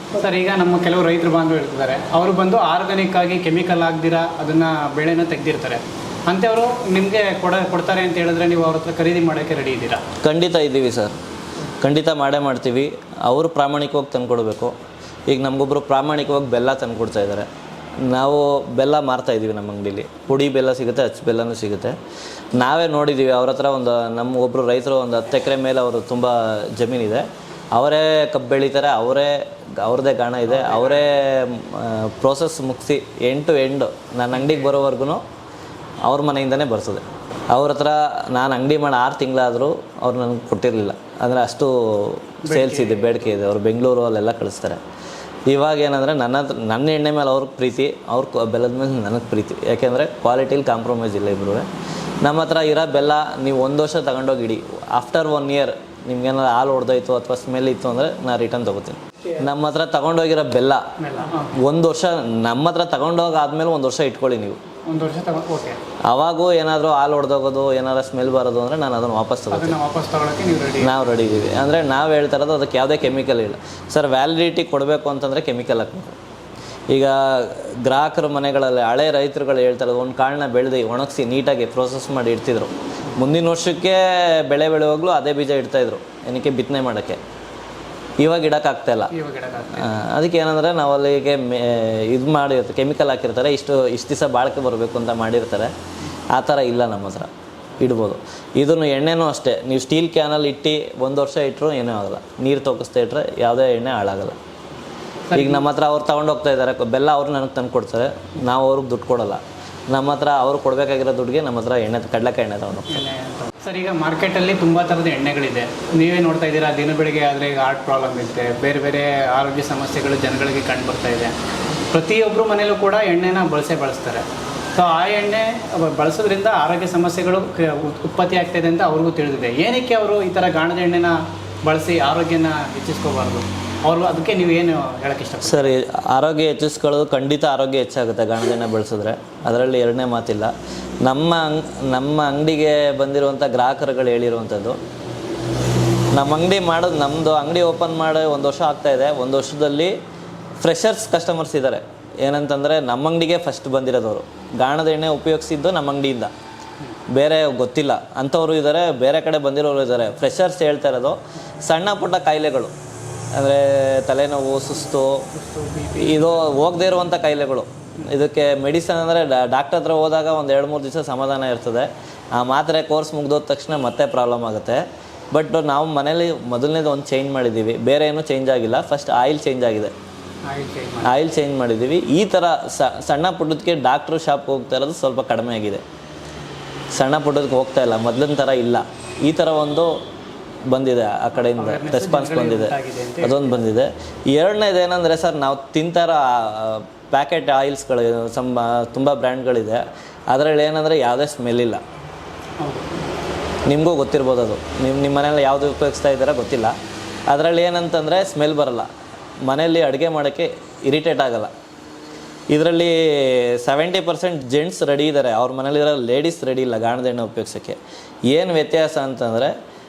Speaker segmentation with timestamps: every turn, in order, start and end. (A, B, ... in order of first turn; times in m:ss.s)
0:00.1-0:10.1 A
0:10.2-0:11.2 B
0:11.8-0:14.8 B
0:15.3-0:22.0 B
0:22.5-0:35.2 B
0:30.5-0:31.2 A
0:34.3-0:34.8 A
0:36.0-0:44.8 B
0:42.5-0:43.2 A
0:45.5-0:51.7 B
0:52.2-1:00.9 B
1:01.0-1:01.6 A
1:01.6-1:04.6 B
1:04.9-1:05.8 A
1:06.0-1:09.8 B
1:09.5-1:11.0 A
1:10.8-1:16.2 B
1:16.9-1:27.2 B
1:28.2-1:29.1 B
1:29.1-1:29.9 A
1:29.7-1:35.7 B
1:36.3-1:44.4 B
1:45.3-1:45.6 A
1:45.4-1:53.0 B
1:52.9-2:15.8 A
2:15.4-2:24.8 B
2:26.1-2:30.0 B
2:30.6-2:36.3 B
2:37.1-2:42.7 B
2:43.3-2:45.3 B
2:45.3-2:46.5 A
2:46.0-2:59.9 B
3:00.5-3:01.1 A
3:01.0-3:05.8 B
3:06.9-3:10.0 B
3:10.7-3:21.8 B
3:11.4-3:13.6 A
3:22.6-3:23.0 A
3:23.7-3:26.8 B
3:27.3-3:28.9 B
3:29.4-3:31.5 B
3:32.5-3:37.8 B
3:38.3-3:39.5 B